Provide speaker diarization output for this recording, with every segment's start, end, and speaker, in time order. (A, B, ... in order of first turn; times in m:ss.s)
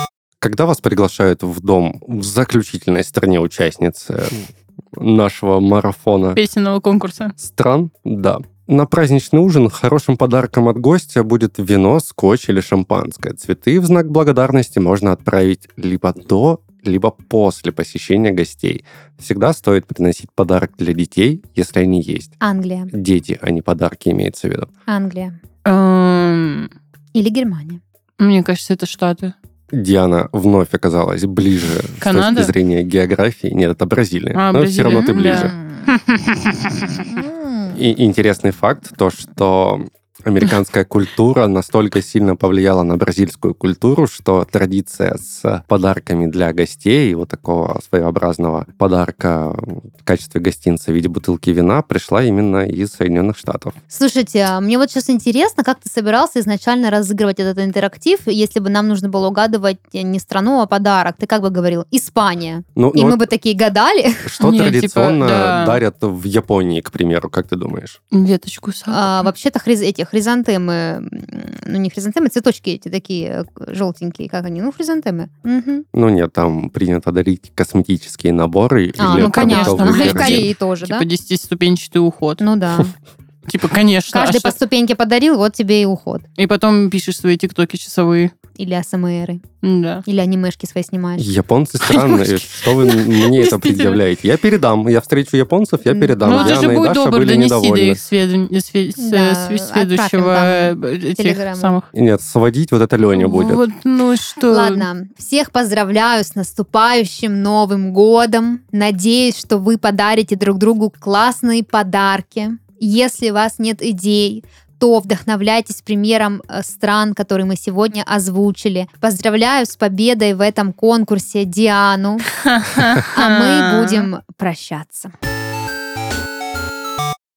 0:00.4-0:06.4 A
0:06.4-0:07.4 B
0:07.4-0:22.4 A
0:22.4-0:22.9 C
0:22.9-0:24.7 A
0:24.9-0:25.4 C
0:25.6-0:26.7 B
0:27.1-0:27.8 C
0:28.2-0:29.3 B
0:29.7-0:35.5 A
0:32.0-0:32.5 B
0:34.3-0:37.1 B
0:35.1-0:35.9 C
0:37.1-0:37.8 C
0:37.7-0:53.7 A
0:53.9-1:04.3 C
1:02.8-1:03.3 A
1:04.2-1:08.0 A
1:04.4-1:05.8 B
1:08.1-1:09.3 B
1:08.9-1:15.8 C
1:15.9-1:20.5 A
1:19.0-1:21.0 C
1:19.1-1:22.4 B
1:22.4-1:22.9 C
1:23.4-1:24.5 B
1:24.1-1:26.2 C
1:26.4-1:28.3 B
1:28.6-1:29.4 C
1:29.6-1:30.0 B
1:30.0-1:31.3 C
1:31.2-1:38.0 A
1:31.8-1:34.0 B
1:35.9-1:36.7 C
1:36.2-1:41.9 B
1:39.0-1:41.8 C
1:41.9-1:43.6 A
1:43.1-1:44.8 B
1:44.5-2:02.3 C
2:02.6-2:04.1 B
2:03.0-2:05.1 C